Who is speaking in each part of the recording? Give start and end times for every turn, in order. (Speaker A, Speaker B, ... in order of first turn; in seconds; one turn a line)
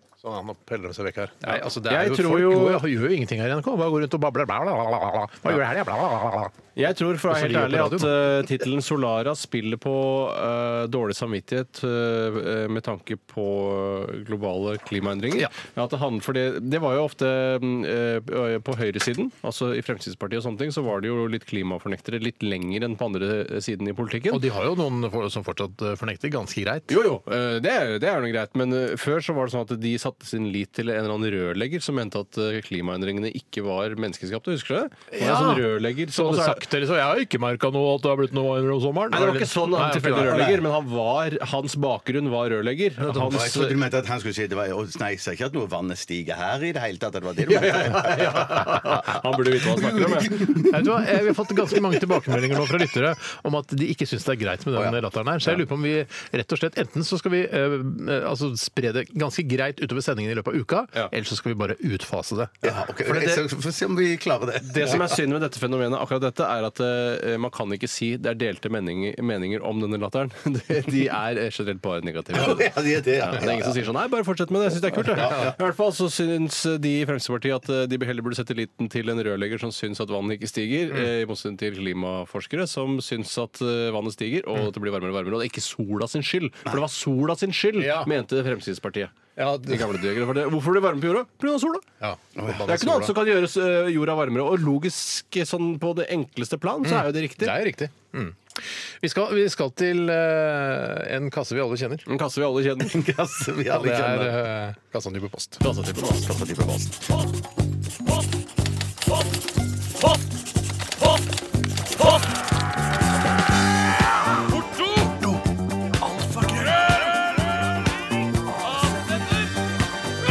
Speaker A: 0.2-6.5
Speaker B: 1.4-2.9
Speaker B: 6.8-24.4
Speaker A: 7.3-8.3
Speaker A: 24.3-27.0
Speaker B: 26.9-36.6
Speaker A: 35.1-40.5
Speaker B: 39.1-43.8
Speaker C: 40.2-40.6
Speaker A: 43.0-43.4
Speaker C: 43.2-52.4
Speaker B: 47.5-50.4
Speaker A: 50.5-62.8
Speaker C: 62.6-65.2
Speaker B: 63.0-63.4
Speaker B: 64.6-91.8
Speaker C: 72.3-73.8
Speaker C: 75.1-75.6
Speaker A: 87.8-88.1
Speaker A: 89.4-89.9
Speaker A: 92.0-93.2
Speaker C: 92.4-92.8
Speaker B: 92.7-97.6
Speaker A: 96.8-102.1
Speaker B: 102.1-103.0
Speaker C: 102.8-104.4
Speaker A: 103.7-105.6
Speaker B: 105.6-106.3
Speaker C: 106.0-107.0
Speaker B: 114.6-115.2
Speaker B: 116.0-117.2